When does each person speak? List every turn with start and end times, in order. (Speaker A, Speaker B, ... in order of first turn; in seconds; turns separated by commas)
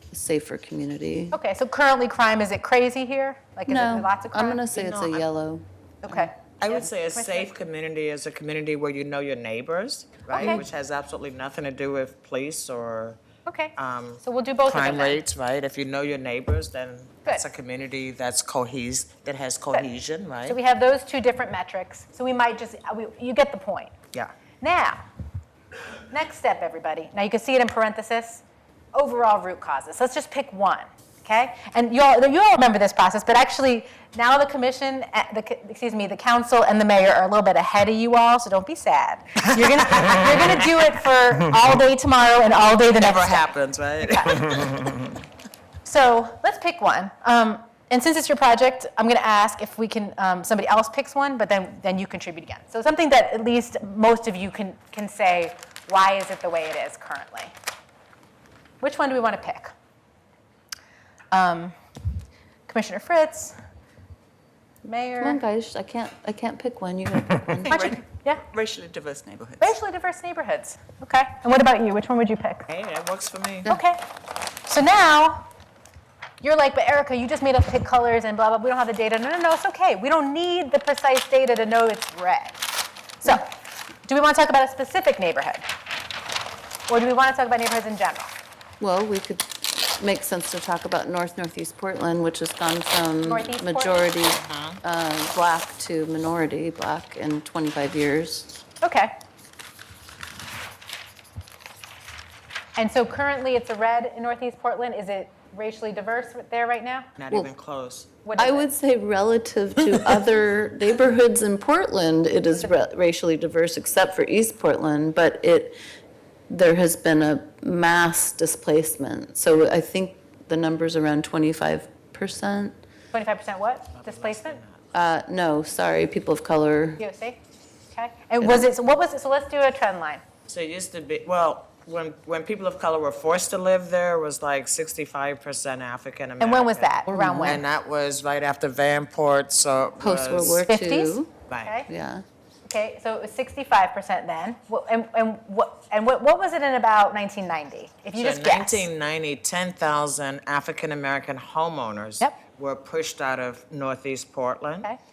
Speaker A: 0.1-1.4, Speaker B: 1.3-4.6, Speaker A: 3.7-6.3, Speaker C: 4.7-5.3, Speaker B: 6.0-7.5, Speaker C: 6.6-13.2, Speaker B: 10.3-10.6, Speaker B: 13.5-15.2, Speaker C: 13.8-20.6, Speaker B: 20.5-23.9, Speaker B: 24.6-25.0, Speaker B: 26.1-28.4, Speaker B: 28.9-44.7, Speaker C: 39.8-40.6, Speaker C: 42.8-45.0, Speaker B: 45.8-57.5, Speaker B: 58.8-59.7, Speaker B: 61.3-61.8, Speaker B: 62.7-63.6, Speaker B: 64.8-65.4, Speaker A: 65.2-68.0, Speaker D: 67.7-69.8, Speaker B: 67.7-68.4, Speaker B: 69.6-72.7, Speaker C: 72.7-73.7, Speaker B: 73.7-74.0, Speaker B: 74.7-75.5, Speaker B: 76.4-82.6, Speaker B: 83.2-83.5, Speaker B: 84.1-85.7, Speaker B: 86.9-88.3, Speaker A: 88.8-98.6, Speaker B: 93.2-94.1, Speaker C: 94.4-94.8, Speaker B: 98.8-99.1, Speaker B: 102.8-107.1, Speaker C: 107.2-108.2, Speaker B: 108.2-108.7, Speaker A: 108.4-115.8, Speaker A: 116.5-122.8, Speaker B: 123.1-124.6, Speaker C: 123.9-124.9, Speaker A: 124.9-127.0, Speaker B: 127.0-127.4, Speaker B: 127.9-130.2, Speaker A: 128.4-128.7, Speaker C: 130.5-140.7, Speaker B: 136.4-137.6, Speaker A: 137.1-137.6, Speaker A: 140.0-141.3, Speaker B: 140.7-141.9, Speaker A: 141.9-142.2, Speaker B: 142.7-148.9, Speaker C: 148.2-154.9